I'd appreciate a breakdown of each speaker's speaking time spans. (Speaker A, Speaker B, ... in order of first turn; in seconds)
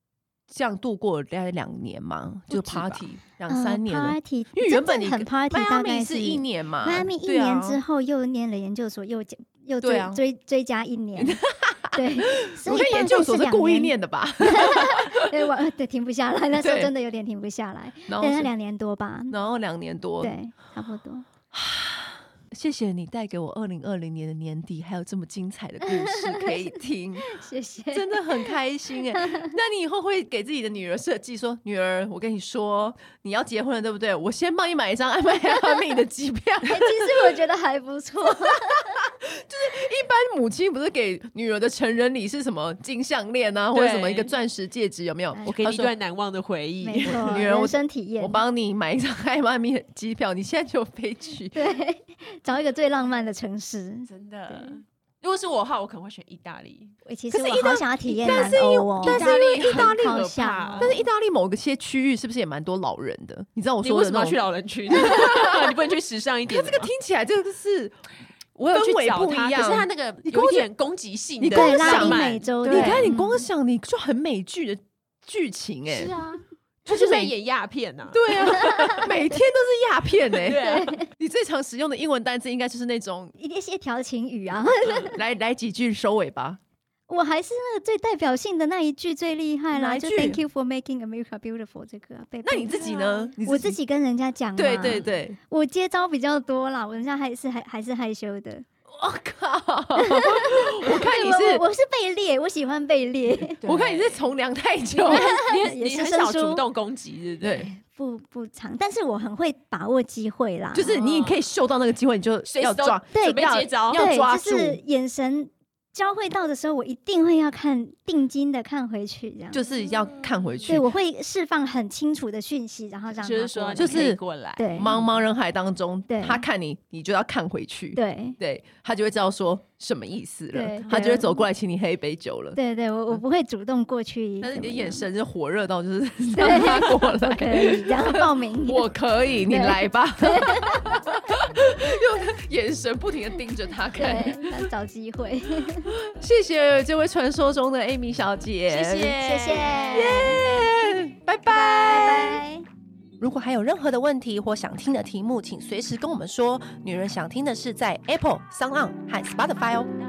Speaker A: 0.5-7.8, 9.8-10.2, 11.2-15.3, 16.6-16.9, 18.1-18.5, 19.3-20.3, 21.5-27.3, 27.9-37.4, 38.7-45.9, 47.0-51.6, 57.3-60.2, 60.8-65.8, 66.5-68.0, 68.6-70.7, 71.4-76.1, 76.8-77.3, 78.1-80.6, 81.1-83.3, 85.0-86.6, 89.7-90.4, 92.4-93.8, 94.5-95.4, 98.9-101.6, 103.7-105.3, 107.4-107.7, 110.7-114.8, 119.5-120.9, 123.8-124.2, 124.7-132.6, 134.4-144.7, 146.0-152.4, 153.2-159.9
Speaker B: 2.5-3.1, 43.7-44.3, 45.4-47.5, 54.1-57.0, 58.2-61.0, 63.8-66.9, 68.6-73.2, 75.9-79.1, 80.3-81.0, 92.7-93.3, 94.8-95.1, 103.6-104.2, 105.0-107.7, 110.8-111.4, 112.4-114.1, 119.8-120.7, 123.1-125.1, 148.7-150.0
Speaker C: 3.5-11.4, 11.9-19.4, 20.2-21.2, 25.8-28.5, 29.1-29.5, 36.6-39.0, 46.8-48.4, 51.5-54.8, 57.0-61.0, 71.5-73.4, 78.5-79.1, 80.6-81.1, 83.4-85.2, 87.1-92.8, 93.4-98.7, 100.0-103.6, 104.9-106.6, 107.7-110.9, 113.1-119.6, 120.7-124.9, 126.1-126.4, 127.9-128.4, 130.5-131.4, 132.5-135.0, 136.3-138.9, 139.5-140.8, 143.9-145.9, 149.2-150.4, 151.5-152.7